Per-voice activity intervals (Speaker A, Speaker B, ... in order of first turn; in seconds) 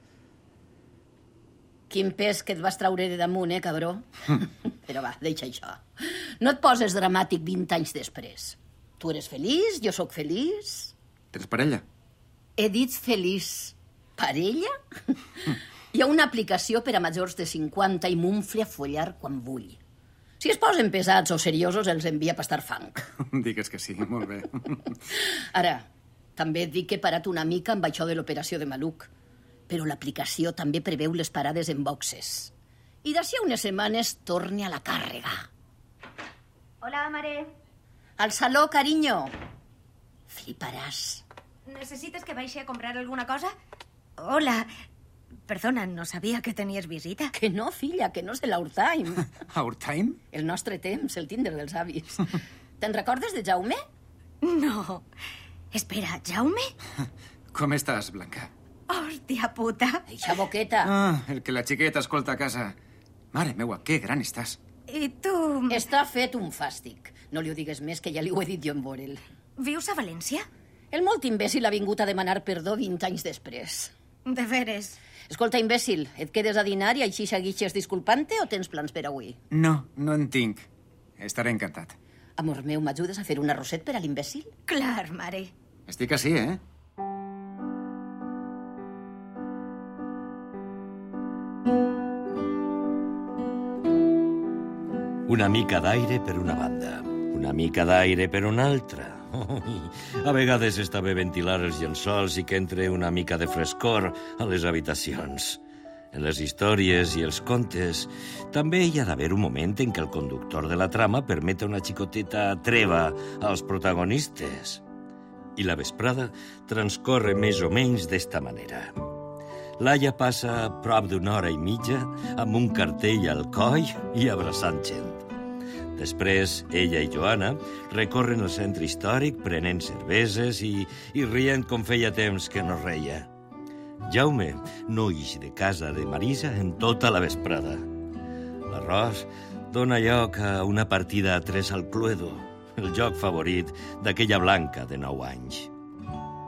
Speaker A: 1.9-10.9, 12.6-19.8, 20.4-23.0, 25.2-29.1, 29.7-32.5, 33.0-35.5, 38.2-39.3, 40.3-41.2, 47.3-49.3, 50.3-53.8, 60.1-60.9, 65.7-69.2, 70.9-73.9, 75.3-79.4, 82.4-84.5
Speaker B: 11.3-11.8, 23.2-25.0, 49.5-50.2, 57.5-58.5, 60.8-62.8, 63.3-64.6, 79.5-80.7, 81.2-82.0, 85.9-86.6
Speaker C: 36.8-37.5, 41.7-43.5, 44.2-44.6, 45.5-47.3, 54.5-55.0, 55.7-56.7, 58.9-60.0, 64.9-65.8, 69.6-70.4, 74.3-74.9, 84.7-85.5
Speaker D: 95.3-114.8, 115.5-118.9, 119.8-125.2, 125.9-133.3, 134.1-137.8, 138.7-145.7